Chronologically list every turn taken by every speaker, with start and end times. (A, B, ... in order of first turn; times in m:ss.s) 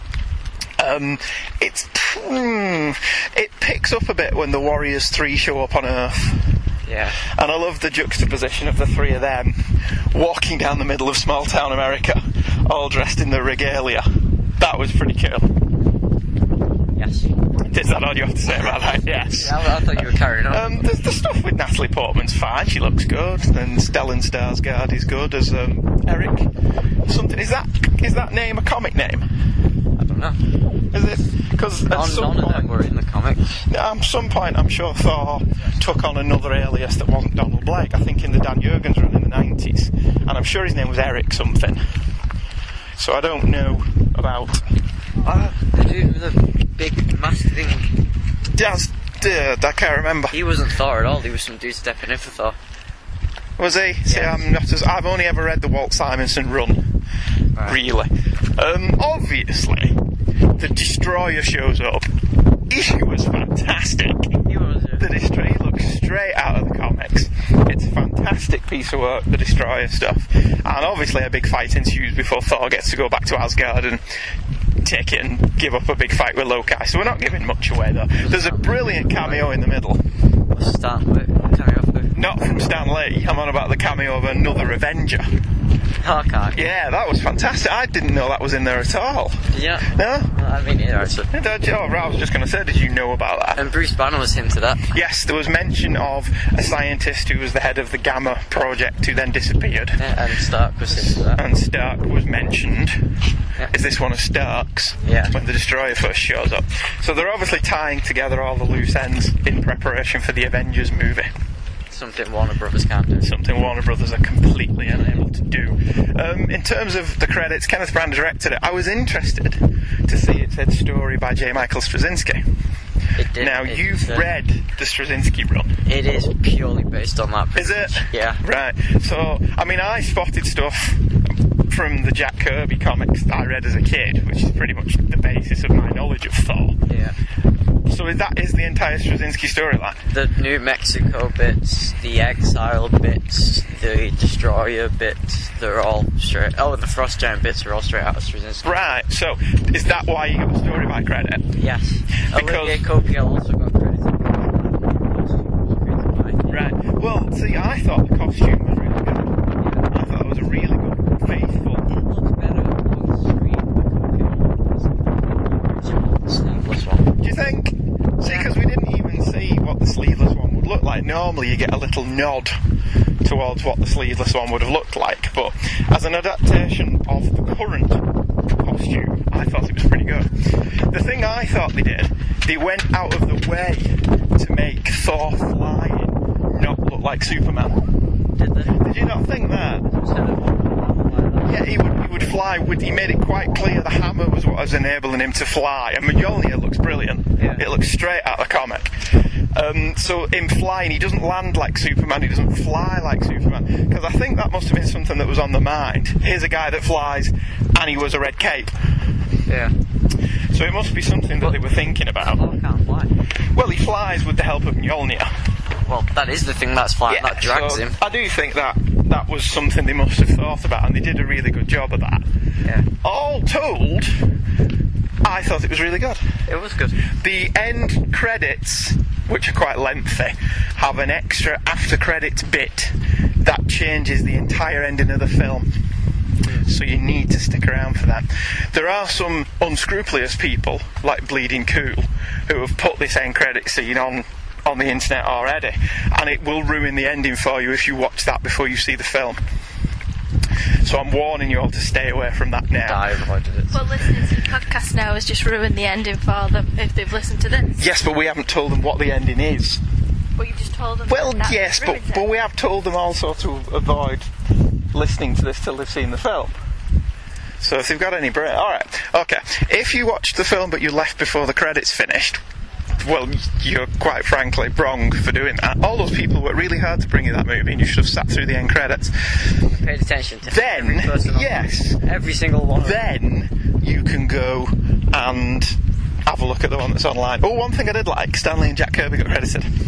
0:00.8-0:06.4 A
0:06.8-0:07.2 B
0:07.2-0:09.6 A
0:10.1-0:14.0 A
0:14.6-0:15.5 A
0:16.9-0:17.3 B
0:17.7-0:26.5 A
0:19.1-0:20.8 B
0:27.0-0:29.2 A
0:30.0-0:30.4 B
0:30.9-0:32.7 A
0:31.9-0:33.6 B
0:33.7-0:41.8 A
0:43.0-0:44.6 A
0:45.2-0:47.9 B
0:48.5-0:50.3 A
0:50.3-0:52.6 B
0:53.6-0:56.8 A
0:54.1-0:54.5 B
0:57.6-1:00.0 A
1:00.6-1:02.1 A
1:02.7-1:04.3 A
1:04.5-1:05.1 B
1:05.0-1:14.0 A
1:14.8-1:20.0 A
1:18.2-1:19.5 B
1:20.5-1:22.1 B
1:22.1-1:25.2 A
1:26.0-1:26.6 B
1:26.5-1:30.3 A
1:29.5-1:31.3 B
1:31.3-1:33.6 A
1:33.6-1:34.9 B
1:34.9-1:40.0 A
1:40.0-1:41.4 B
1:40.9-1:43.0 A
1:43.7-1:51.3 A
1:45.0-1:45.3 B
1:51.9-1:53.3 B
1:53.2-2:02.4 A
1:54.9-1:55.2 B
2:03.2-2:04.3 B
2:03.4-2:05.7 A
2:05.8-2:08.4 B
2:07.5-2:16.8 A
2:16.9-2:17.1 B
2:17.9-2:20.0 A
2:20.1-2:28.8 B
2:28.6-2:31.5 A
2:31.6-2:36.6 B
2:32.3-2:32.8 A
2:36.5-2:39.3 A
2:39.6-2:40.0 B
2:39.9-2:41.9 A
2:41.8-2:47.0 B
2:47.2-2:52.6 A
2:48.2-2:48.5 B
2:53.2-2:58.0 A
2:58.6-3:00.3 A
3:00.9-3:07.8 A
3:08.4-3:08.8 B
3:08.7-3:09.9 A
3:09.8-3:11.7 B
3:11.4-3:19.0 A
3:17.4-3:17.6 B
3:19.5-3:28.7 A
3:29.5-3:29.7 B
3:30.5-3:32.4 A
3:32.2-3:33.1 B
3:33.5-3:35.3 A
3:35.8-3:38.0 B
3:37.1-3:42.2 A
3:43.0-3:44.1 A
3:45.2-3:46.2 A
3:46.5-3:47.0 B
3:47.2-3:55.7 A
3:56.6-4:09.4 A
4:10.8-4:13.0 A
4:12.8-4:13.8 B
4:13.7-4:17.8 C
4:17.7-4:19.8 A
4:20.4-4:22.2 C
4:21.1-4:24.3 A
4:24.9-4:26.6 A
4:27.6-4:32.4 A
4:33.0-4:39.1 A
4:39.6-4:43.0 B
4:40.4-4:42.0 A
4:42.8-4:49.7 A